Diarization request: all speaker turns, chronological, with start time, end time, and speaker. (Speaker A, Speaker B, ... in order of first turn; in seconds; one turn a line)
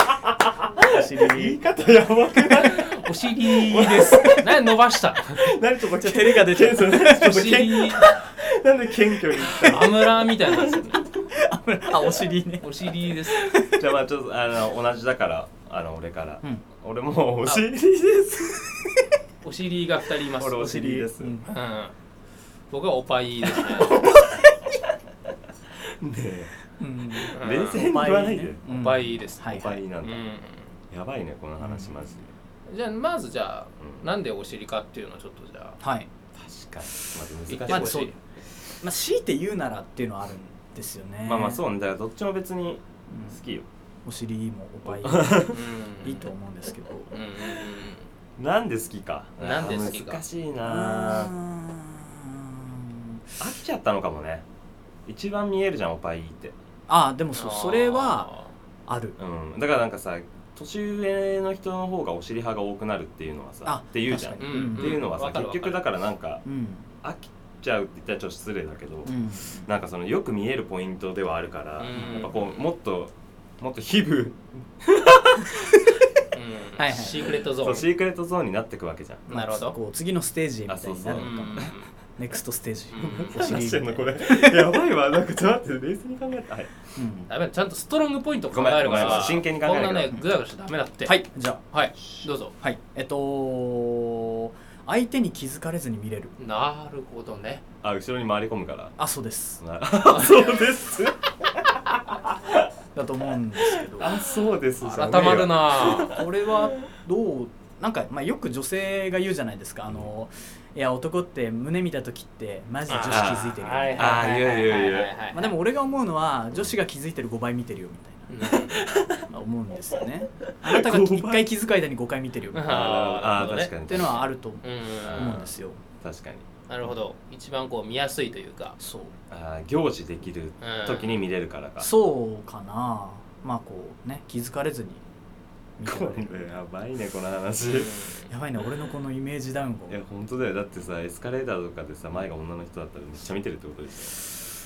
Speaker A: 0.8-4.7
Speaker B: 0.8-1.6
Speaker C: 2.5-5.5
Speaker A: 5.2-10.3
Speaker B: 6.0-7.9
Speaker C: 7.1-8.1
Speaker C: 9.5-11.0
Speaker B: 11.3-13.8
Speaker C: 12.6-13.4
Speaker A: 13.4-18.9
Speaker C: 19.4-20.8
Speaker A: 20.4-21.4
Speaker B: 20.6-21.5
Speaker C: 21.4-21.9
Speaker C: 22.7-24.0
Speaker A: 23.8-24.3
Speaker A: 26.0-26.5
Speaker B: 26.8-29.8
Speaker A: 27.1-28.6
Speaker C: 27.3-27.8
Speaker C: 28.7-30.7
Speaker A: 29.4-30.2
Speaker A: 30.9-32.3
Speaker B: 31.6-32.1
Speaker C: 32.7-35.8
Speaker A: 33.8-34.1
Speaker B: 35.8-36.1
Speaker A: 36.3-38.1
Speaker C: 37.5-38.2
Speaker B: 37.7-38.1
Speaker B: 38.8-41.6
Speaker A: 41.2-43.7
Speaker B: 43.1-43.4
Speaker B: 44.0-47.2
Speaker A: 44.9-45.6
Speaker C: 45.5-46.3
Speaker C: 47.1-48.1
Speaker A: 48.4-51.3
Speaker C: 49.4-50.2
Speaker B: 50.6-53.3
Speaker A: 53.4-54.4
Speaker A: 55.1-56.5
Speaker B: 56.9-58.3
Speaker C: 57.3-58.5
Speaker B: 58.9-59.2
Speaker A: 59.2-66.4
Speaker B: 63.6-65.0
Speaker C: 64.4-65.8
Speaker B: 66.4-66.9
Speaker A: 67.0-75.8
Speaker B: 69.1-69.6
Speaker C: 71.8-72.7
Speaker C: 76.3-77.9
Speaker B: 76.8-77.4
Speaker A: 77.6-79.3
Speaker C: 79.3-79.8
Speaker B: 79.3-84.7
Speaker A: 80.7-81.7
Speaker C: 81.2-81.9
Speaker C: 82.9-83.5
Speaker A: 83.0-86.7
Speaker B: 87.0-87.3
Speaker C: 87.3-92.5
Speaker A: 88.5-90.2
Speaker B: 91.0-91.6
Speaker B: 92.6-96.3
Speaker C: 96.4-97.6
Speaker A: 97.8-98.9
Speaker B: 99.0-99.6
Speaker A: 99.6-101.2
Speaker C: 100.1-100.5
Speaker A: 102.1-102.7
Speaker B: 102.9-104.2
Speaker A: 103.8-106.7
Speaker C: 104.8-106.1
Speaker B: 105.8-114.3
Speaker C: 112.9-115.5
Speaker A: 113.1-115.2
Speaker B: 115.3-118.5
Speaker C: 118.3-118.8
Speaker A: 118.7-119.2
Speaker B: 119.2-122.8
Speaker A: 120.6-121.5
Speaker C: 122.5-123.7
Speaker A: 122.6-124.3
Speaker B: 123.7-125.8
Speaker C: 124.6-125.4
Speaker A: 125.0-125.5
Speaker A: 126.0-126.5
Speaker C: 126.7-128.8
Speaker B: 128.8-129.2
Speaker A: 129.3-131.9
Speaker C: 130.6-131.2
Speaker B: 131.8-135.0
Speaker B: 135.8-136.4
Speaker A: 135.8-138.1
Speaker C: 137.6-138.3
Speaker B: 138.3-140.0
Speaker A: 139.9-144.3